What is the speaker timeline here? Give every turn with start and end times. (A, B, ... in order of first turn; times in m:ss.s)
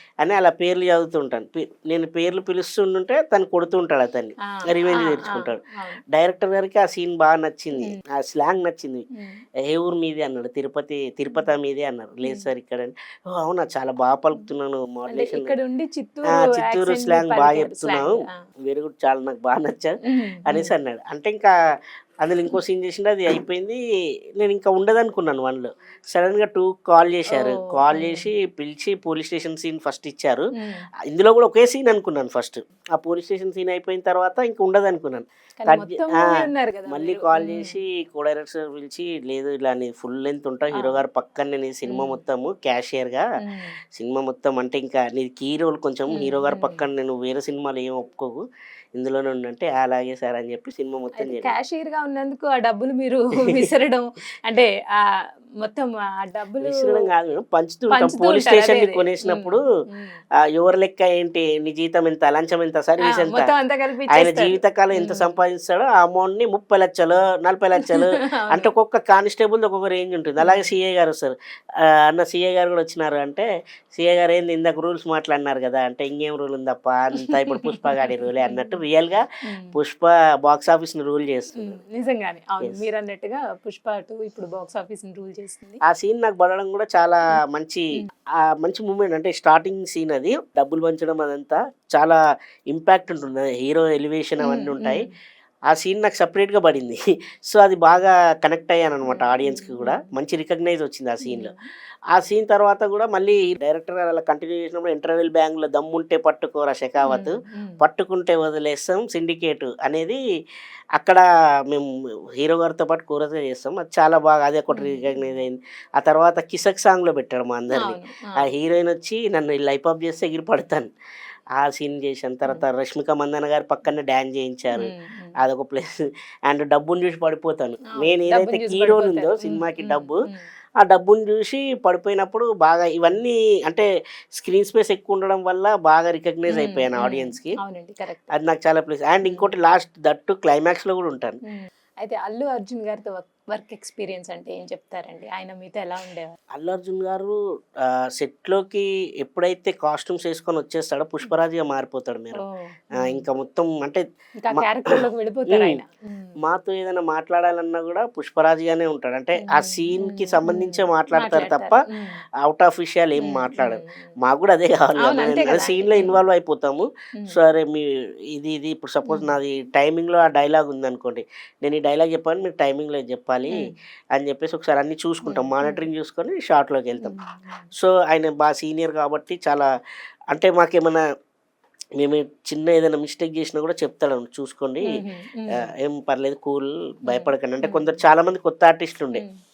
0:00.2-0:09.0 A
0:04.4-0:06.0 B
0:09.2-0:09.4 B
0:09.6-0:15.5 A
0:15.1-0:18.4 B
0:16.3-0:21.5 A
0:20.0-0:20.7 B
0:22.2-0:23.8 A
0:24.4-0:30.5 A
0:27.3-0:28.3 B
0:30.5-0:30.9 B
0:31.1-0:43.2 A
0:35.6-0:37.8 B
0:40.7-0:41.0 B
0:41.9-0:42.2 B
0:43.4-0:43.8 B
0:43.9-0:48.4 A
0:46.1-0:46.8 B
0:49.0-0:51.5 A
0:51.2-0:57.1 B
0:56.6-0:59.6 A
0:57.9-1:00.2 B
1:00.6-1:03.5 A
1:03.0-1:05.3 B
1:04.1-1:21.8 A
1:07.8-1:08.7 B
1:10.4-1:10.7 B
1:17.2-1:18.8 B
1:19.5-1:19.8 B
1:21.6-1:25.8 B
1:25.8-1:27.9 A
1:28.5-1:32.2 A
1:32.7-1:35.1 A
1:34.4-1:35.1 B
1:35.7-1:41.5 A
1:39.1-1:40.1 B
1:41.2-1:41.6 B
1:42.1-1:50.2 A
1:47.0-1:47.8 B
1:51.0-2:00.9 A
1:54.7-1:55.4 B
1:57.7-1:58.4 B
2:01.6-2:10.2 A
2:04.7-2:05.4 B
2:07.9-2:10.4 B
2:10.8-2:17.6 A
2:16.5-2:18.3 B
2:18.3-2:21.4 A
2:19.2-2:19.5 B
2:21.5-2:26.4 B
2:26.5-2:34.0 A
2:32.4-2:33.2 B
2:34.4-2:36.4 B
2:34.5-2:35.8 A
2:36.4-2:41.8 A
2:39.4-2:42.2 B
2:42.4-2:57.1 A
2:43.2-2:44.1 B
2:45.0-2:46.2 B
2:49.0-2:49.3 B
2:55.2-2:55.9 B
2:57.0-2:57.7 B
2:57.7-2:59.7 A
3:00.3-3:01.0 A
3:02.0-3:05.0 A
3:04.8-3:05.7 B
3:05.6-3:09.2 A
3:07.1-3:08.0 B